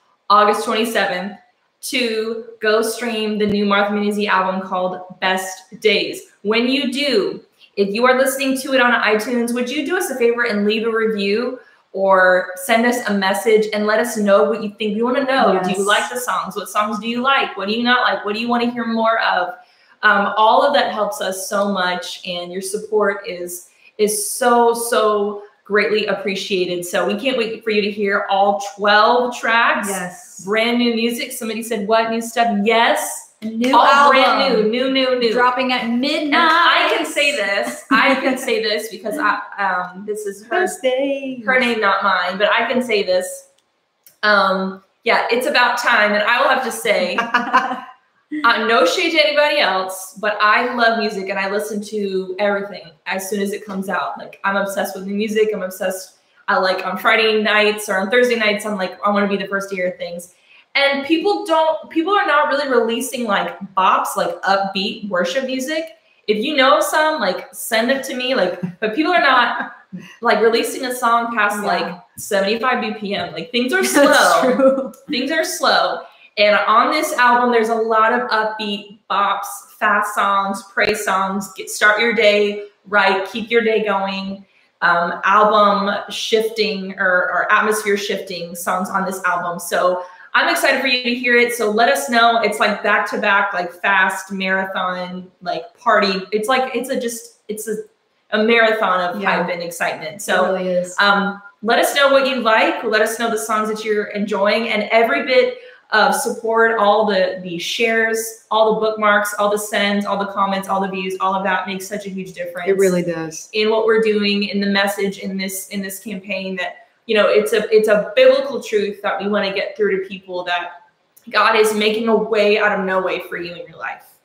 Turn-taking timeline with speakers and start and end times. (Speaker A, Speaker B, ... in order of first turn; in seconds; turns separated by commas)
Speaker A: 0.3-35.5, Speaker B: 15.4-16.1, Speaker B: 29.8-30.5, Speaker B: 33.4-34.7, Speaker B: 35.2-38.4, Speaker A: 36.3-40.8, Speaker C: 40.5-41.7, Speaker A: 41.4-43.5, Speaker A: 44.2-47.4, Speaker C: 47.4-47.6, Speaker B: 47.4-47.8, Speaker A: 48.4-113.0, Speaker B: 71.5-72.0, Speaker B: 73.8-75.0, Speaker B: 99.1-99.5, Speaker C: 100.3-101.0, Speaker C: 112.6-113.5, Speaker A: 113.5-120.8, Speaker A: 121.3-124.1